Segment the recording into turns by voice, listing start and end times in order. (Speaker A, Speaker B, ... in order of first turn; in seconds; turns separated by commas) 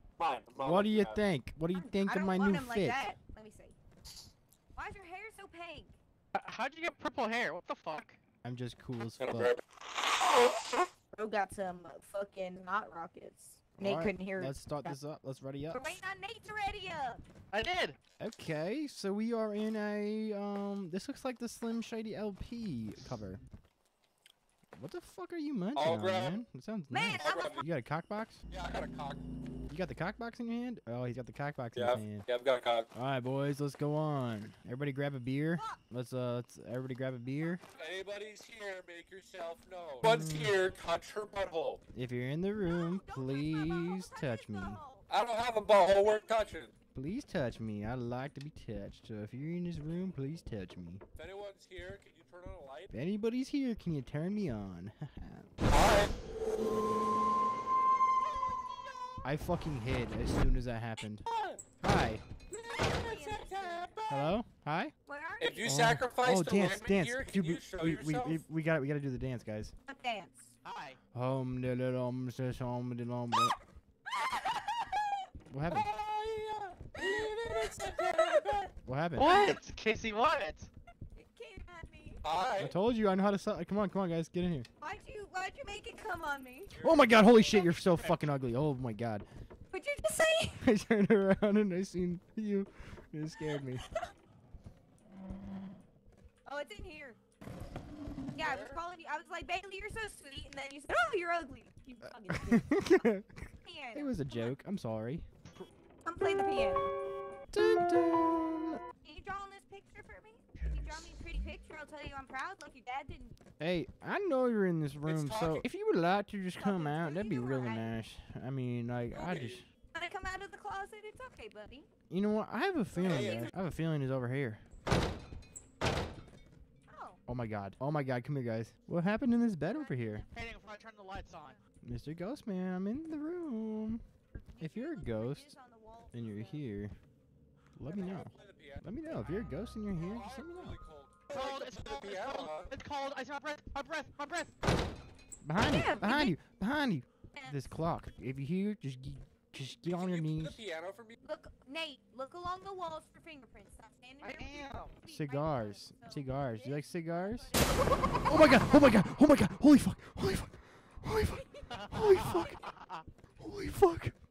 Speaker A: 0.2-1.2, Speaker B: 0.5-3.1, Speaker C: 1.7-3.8, Speaker C: 4.8-5.9, Speaker D: 6.3-8.2, Speaker B: 8.4-9.6, Speaker A: 9.2-9.6, Speaker C: 11.1-15.0, Speaker B: 13.8-15.9, Speaker C: 15.7-17.2, Speaker D: 17.5-18.0, Speaker B: 18.2-23.4, Speaker B: 24.8-28.4, Speaker A: 25.7-26.4, Speaker C: 26.9-27.6, Speaker A: 27.2-27.6, Speaker A: 28.5-29.3, Speaker B: 29.7-32.2, Speaker A: 31.7-32.9, Speaker B: 32.9-37.6, Speaker C: 35.5-35.8, Speaker C: 37.3-38.0, Speaker A: 37.7-41.8, Speaker B: 40.0-40.6, Speaker B: 41.9-44.8, Speaker C: 42.6-45.0, Speaker A: 45.1-46.7, Speaker B: 46.9-51.0, Speaker A: 51.1-52.9, Speaker B: 52.9-55.5, Speaker A: 55.7-56.1, Speaker B: 59.2-61.2, Speaker A: 61.2-61.6, Speaker B: 61.8-62.2, Speaker A: 62.5-64.3, Speaker C: 62.5-64.0, Speaker B: 64.1-64.9, Speaker C: 65.1-65.7, Speaker A: 65.4-68.5, Speaker B: 65.6-69.7, Speaker C: 69.9-70.5, Speaker D: 70.6-71.0, Speaker B: 71.1-73.5, Speaker C: 74.1-75.3, Speaker B: 75.5-75.9, Speaker A: 75.7-78.7, Speaker C: 76.9-78.7, Speaker B: 78.8-79.5, Speaker D: 79.2-80.7, Speaker C: 81.2-82.2, Speaker A: 82.2-82.7, Speaker B: 82.6-84.7, Speaker C: 84.8-86.7, Speaker A: 86.7-87.2, Speaker B: 86.8-89.2, Speaker C: 87.3-87.7, Speaker D: 87.8-88.2, Speaker C: 89.7-90.6, Speaker B: 90.5-93.8, Speaker C: 96.5-97.2, Speaker C: 98.3-103.0, Speaker A: 98.4-98.8, Speaker B: 102.3-105.2, Speaker C: 103.6-104.5, Speaker C: 106.0-106.9, Speaker B: 107.5-108.8, Speaker C: 109.0-113.4, Speaker B: 113.6-119.7, Speaker A: 115.0-115.7, Speaker C: 116.6-117.9, Speaker A: 119.1-119.6, Speaker C: 119.9-121.9, Speaker B: 122.1-124.6, Speaker C: 122.9-123.5, Speaker A: 123.0-123.5, Speaker C: 126.9-127.2, Speaker B: 127.3-130.2, Speaker C: 129.6-130.4, Speaker D: 130.3-131.6, Speaker C: 131.3-131.6, Speaker B: 131.8-134.0, Speaker C: 134.3-136.6, Speaker B: 134.6-135.6, Speaker B: 136.1-136.9, Speaker B: 137.8-140.8, Speaker C: 137.8-138.3, Speaker A: 137.9-138.8, Speaker C: 140.0-140.2, Speaker A: 140.1-142.7, Speaker D: 141.3-144.5, Speaker B: 145.4-150.6, Speaker C: 145.7-146.3, Speaker C: 147.3-147.7, Speaker A: 149.8-151.2, Speaker C: 151.2-158.3, Speaker D: 154.2-154.9, Speaker B: 155.1-157.5, Speaker B: 158.2-162.7, Speaker D: 161.7-163.0, Speaker B: 163.4-164.2